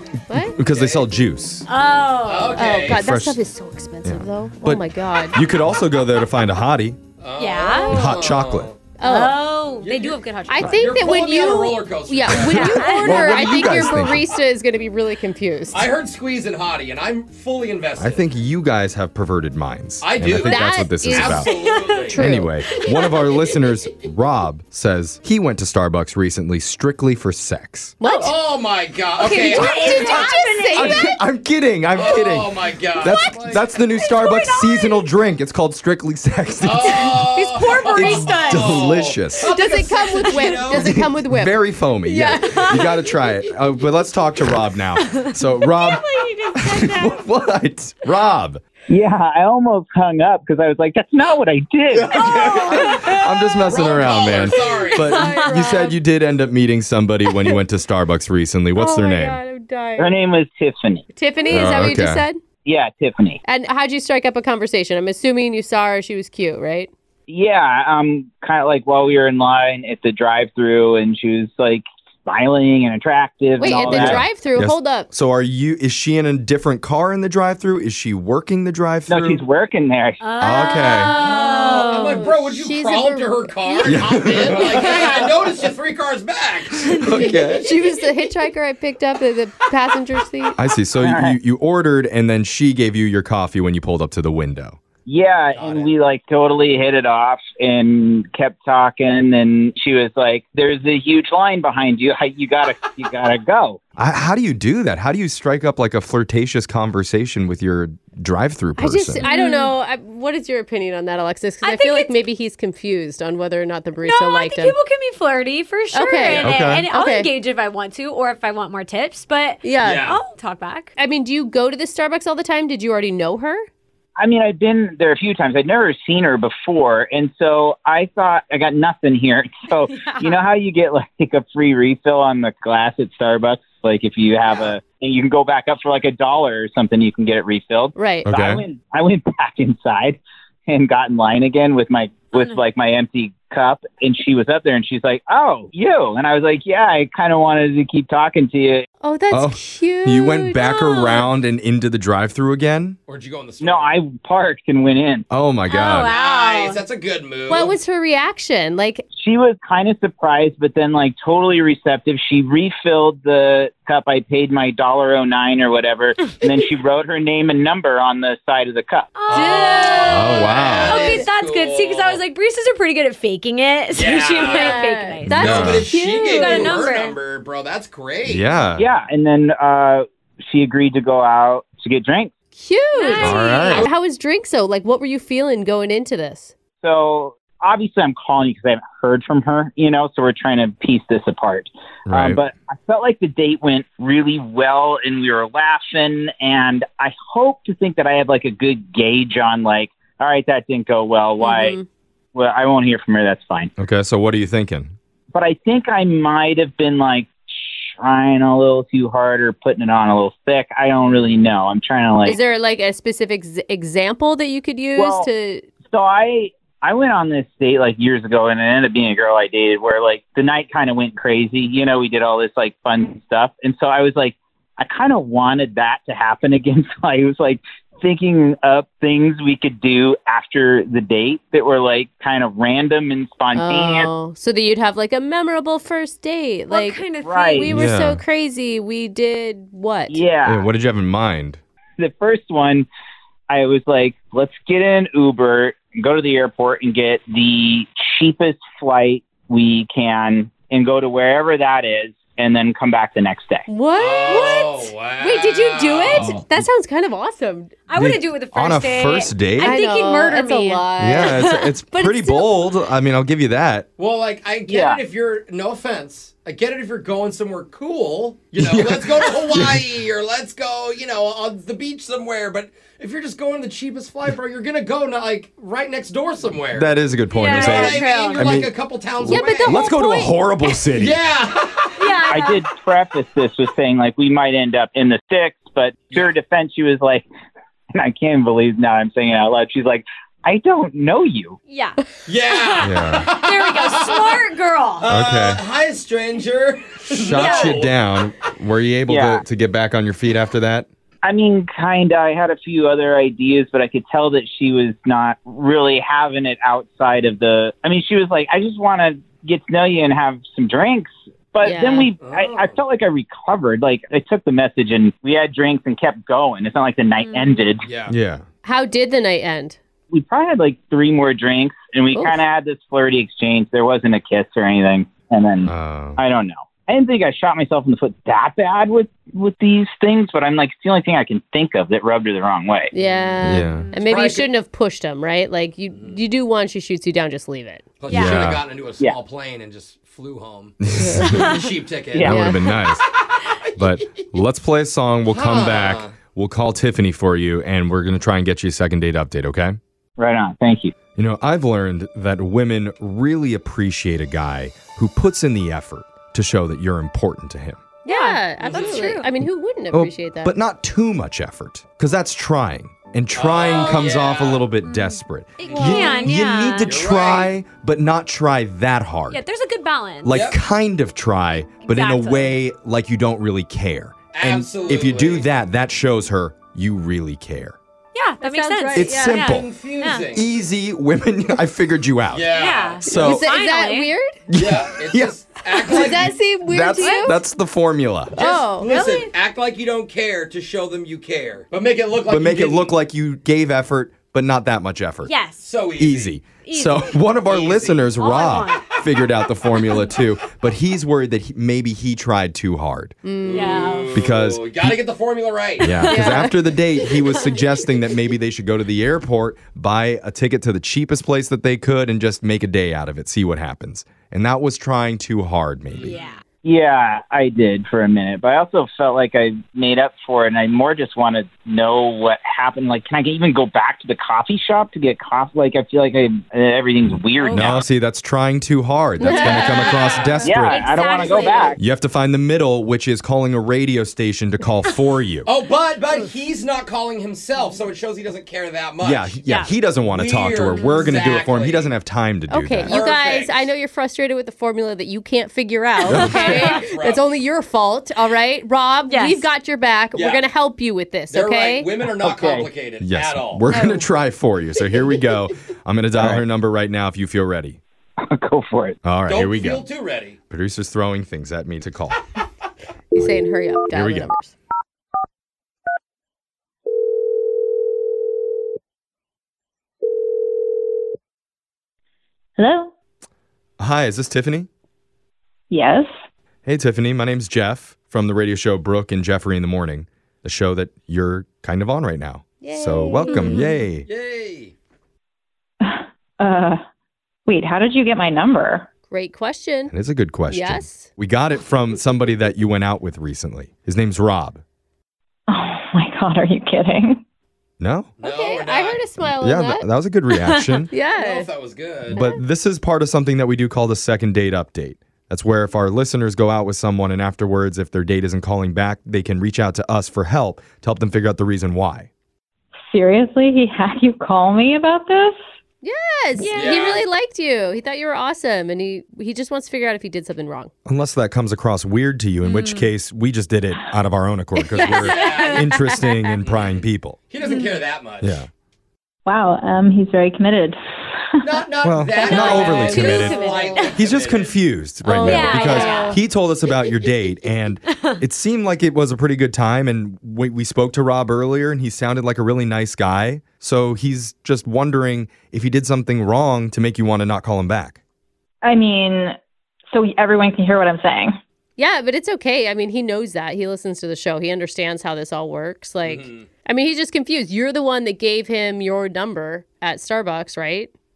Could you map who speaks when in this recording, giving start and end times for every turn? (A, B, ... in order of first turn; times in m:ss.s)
0:00.3-0:00.6 A
0:00.4-0:01.7 B
0:00.6-0:01.1 C
0:01.7-0:02.8 D
0:02.2-0:03.0 C
0:02.5-0:05.4 A
0:02.8-0:03.4 B
0:04.0-0:07.0 B
0:07.2-0:08.8 C
0:07.4-0:08.1 D
0:07.9-0:08.7 B
0:09.0-0:09.4 A
0:09.0-0:10.9 D
0:09.8-0:12.7 C
0:10.5-0:15.9 A
0:12.3-0:14.2 B
0:12.4-0:13.2 D
0:13.2-0:13.9 C
0:15.7-0:18.3 C
0:18.0-0:21.6 B
0:20.0-0:22.2 C
0:20.4-0:21.5 A
0:21.5-0:22.2 D
0:22.1-0:22.6 A
0:22.1-0:28.0 B
0:22.7-0:23.2 D
0:22.8-0:23.8 C
0:28.0-0:28.4 A
0:28.0-0:28.3 D
0:28.2-0:29.8 C
0:29.2-0:31.2 A
0:29.4-0:31.2 D
0:29.8-0:37.2 B
0:31.9-0:33.6 C
0:33.0-0:33.6 A
0:33.8-0:35.1 D
0:36.6-0:40.9 C
0:36.8-0:38.0 A
0:37.6-0:38.8 D
0:37.9-0:39.5 B
0:39.4-0:42.7 A
0:40.2-0:40.6 D
0:40.8-0:48.6 B
0:42.4-0:42.9 D
0:45.0-0:47.3 D
0:48.9-0:52.1 E
0:51.9-0:59.4 B
0:52.1-0:52.9 C
0:52.7-0:53.7 D
0:53.7-0:55.4 C
0:54.0-0:56.0 A
0:55.0-0:55.5 D
0:57.3-0:57.6 A
0:58.8-1:00.2 A
1:00.0-1:01.0 E
1:01.1-1:02.4 A
1:01.5-1:02.3 B
1:02.6-1:03.4 E
1:03.4-1:06.9 A
1:07.3-1:14.2 E
1:13.6-1:15.1 A
1:13.9-1:19.4 B
1:19.1-1:20.2 E
1:20.2-1:22.0 D
1:20.4-1:21.1 B
1:21.0-1:27.3 C
1:21.3-1:24.7 A
1:23.8-1:24.9 B
1:24.7-1:25.3 D
1:26.9-1:27.4 D
1:27.0-1:27.7 B
1:27.1-1:30.6 A
1:30.6-1:34.8 B
1:31.0-1:31.4 E
1:35.1-1:43.8 E
1:35.5-1:35.9 C
1:44.0-1:49.2 B
1:48.8-1:54.8 A
1:49.2-1:49.8 D
1:51.6-1:52.2 D
1:54.0-2:00.9 D
1:55.9-1:57.3 A
1:56.3-1:56.6 C
1:56.4-1:56.9 B
1:59.6-2:00.1 A
1:59.8-2:00.2 C
2:01.0-2:03.7 A
2:04.2-2:28.9 E
2:09.8-2:10.4 D
2:18.0-2:18.3 A
2:18.3-2:18.6 B
2:29.0-2:31.3 A
2:29.3-2:33.0 B
2:33.1-2:33.9 C
2:33.6-2:35.3 E
2:35.3-2:36.1 B
2:35.7-2:36.8 D
2:36.0-2:37.8 C
2:37.5-2:39.0 A
2:39.2-2:49.4 E
2:49.2-2:55.6 D
2:49.2-2:52.2 C
2:50.1-2:51.0 B
2:50.9-2:51.2 A
2:53.9-2:58.5 C
2:54.5-2:56.7 A
2:55.3-2:55.9 B
2:56.3-2:57.2 D
2:58.3-2:58.9 B
2:58.8-3:02.3 E
3:02.6-3:06.5 A
3:02.9-3:03.8 D
3:03.2-3:03.9 B
3:06.8-3:21.8 E
3:12.1-3:12.4 B
3:21.4-3:21.9 A
3:22.4-3:23.7 E
3:23.8-3:24.9 B
3:25.3-3:32.4 E
3:31.1-3:31.5 A
3:32.2-3:35.7 A
3:35.0-3:35.3 E
3:35.9-3:54.1 E
3:53.5-3:57.0 A
3:56.7-3:57.8 D
3:57.2-3:57.7 E
3:57.6-4:00.2 A
3:57.7-3:58.2 B
4:00.1-4:00.7 E
4:00.4-4:01.6 B
4:02.0-4:02.9 E
4:03.5-4:13.6 E
4:13.7-4:17.8 A
4:13.9-4:16.4 C
4:17.9-4:21.7 D
4:18.0-4:19.8 B
4:19.6-4:22.7 A
4:21.0-4:23.9 B
4:24.0-4:39.9 C
4:24.7-4:25.0 E
4:28.6-4:30.0 B
4:36.7-4:41.2 B
4:37.3-4:38.5 D
4:39.2-4:40.4 A
4:40.8-4:42.1 C
4:42.0-4:42.6 D
4:42.3-4:47.3 E
4:48.0-4:51.6 E
4:51.7-4:55.1 D
4:52.3-4:54.4 C
4:52.8-4:53.3 B
4:55.0-4:58.1 C
4:55.1-4:55.6 B
4:57.1-5:00.9 B
4:57.3-4:57.8 D
4:59.1-4:59.4 E
5:01.2-5:17.9 E
5:11.6-5:12.1 A
5:12.2-5:12.8 C
5:17.2-5:17.6 D
5:17.8-5:18.1 C
5:18.1-5:18.4 B
5:18.6-5:19.8 A
5:20.1-5:32.9 E
5:22.1-5:22.4 A
5:25.6-5:26.2 B
5:32.9-5:37.9 A
5:33.0-5:33.4 C
5:33.4-5:34.0 D
5:33.4-5:33.9 B
5:34.0-5:34.5 C
5:35.9-5:36.2 C
5:38.0-5:40.8 C
5:38.1-5:38.5 D
5:38.1-5:38.6 B
5:40.8-5:41.5 B
5:40.9-5:41.4 A
5:41.3-5:43.4 C
5:42.1-5:42.4 E
5:42.2-5:43.0 B
5:42.2-5:42.6 A
5:43.8-5:49.8 B
5:45.3-5:46.1 C
5:50.2-5:50.9 E
5:51.2-5:57.8 B
5:58.0-5:59.3 D
5:58.1-6:00.6 A
5:58.6-5:59.1 C
5:59.9-6:09.4 B
6:03.4-6:04.7 C
6:04.9-6:07.0 D
6:05.6-6:06.3 C
6:05.7-6:06.3 A
6:06.8-6:07.6 C
6:09.3-6:10.4 D
6:10.2-6:17.8 B
6:10.3-6:10.6 C
6:11.8-6:12.6 D
6:14.3-6:15.5 C
6:18.2-6:20.3 D
6:18.4-6:19.4 A
6:19.0-6:19.7 B
6:19.4-6:20.5 C
6:20.3-6:22.5 B
6:22.3-6:23.0 C
6:22.6-6:24.1 D
6:23.0-6:24.4 A
6:23.0-6:23.5 B
6:24.5-6:25.3 B
6:24.5-6:26.4 C
6:25.8-6:27.4 A
6:25.9-6:26.1 B
6:26.7-6:28.4 B
6:27.0-6:27.3 D
6:28.4-6:28.9 A
6:28.4-6:32.9 C
6:28.9-6:29.3 D
6:32.3-6:35.3 B
6:35.2-6:35.7 D
6:35.6-6:36.4 C
6:36.0-6:43.1 B
6:36.6-6:37.2 D
6:37.4-6:38.2 C
6:38.2-6:38.8 D
6:43.2-6:43.8 A
6:43.4-6:46.0 C
6:43.5-6:44.2 D
6:44.1-6:45.0 B
6:45.8-6:56.1 B
6:45.9-6:46.5 D
6:46.1-6:47.7 A
6:56.0-6:56.4 D
6:56.6-7:07.8 E
7:07.4-7:07.7 D
7:07.5-7:10.9 B
7:09.2-7:11.8 D
7:09.2-7:10.1 A
7:10.0-7:10.4 C
7:10.4-7:11.8 E
7:11.8-7:15.5 B
7:15.5-7:19.4 C
7:19.0-7:23.0 B
7:19.5-7:19.7 D
7:20.1-7:22.0 C
7:20.7-7:21.3 D
7:22.5-7:31.9 A
7:22.8-7:23.6 C
7:26.1-7:26.4 B
7:26.1-7:26.8 D
7:26.4-7:27.2 C
7:29.1-7:29.5 D
7:30.1-7:30.4 C
7:31.3-7:33.6 C
7:32.2-7:32.7 E
7:33.0-7:37.8 B
7:33.7-7:34.1 D
7:36.2-7:36.4 E
7:38.3-7:39.0 E
7:39.0-7:39.9 B
7:39.3-7:40.4 C
7:40.5-7:42.2 B
7:43.1-7:44.5 A
7:43.9-7:44.3 B
7:52.6-7:52.9 F
7:53.8-7:54.7 B
7:55.7-7:56.1 F
7:56.6-8:04.1 B
8:02.6-8:03.7 A
8:03.3-8:03.8 D
8:04.1-8:04.7 C
8:05.8-8:06.8 F
8:07.5-8:08.9 F
8:09.1-8:09.9 A
8:09.9-8:14.6 B
8:10.5-8:11.1 A
8:15.5-8:17.2 F
8:17.8-8:18.1 B
8:18.2-8:19.0 C
8:18.2-8:19.9 A
8:19.4-8:20.9 B
8:20.3-8:20.7 D
8:20.9-8:21.5 A
8:21.1-8:22.3 C
8:22.1-8:22.4 A
8:22.2-8:32.1 B
8:32.9-8:35.3 F
8:35.8-8:40.7 A
8:36.4-8:37.0 C
8:40.8-8:47.2 B
8:42.4-8:42.9 D
8:44.6-8:45.7 A
8:44.8-8:45.7 D
8:45.1-8:45.8 C
8:46.4-8:48.4 C
8:47.4-8:47.8 D
8:48.2-8:48.5 B
8:49.3-8:50.8 F
8:51.4-8:54.6 C
8:51.8-8:53.4 B
8:52.2-8:54.0 D
8:54.0-9:08.0 B
8:55.1-8:56.2 A
8:55.2-8:56.1 C
8:55.2-8:56.2 D
9:08.6-9:09.4 F
9:09.9-9:11.4 F
9:11.8-9:20.9 A
9:16.0-9:16.4 C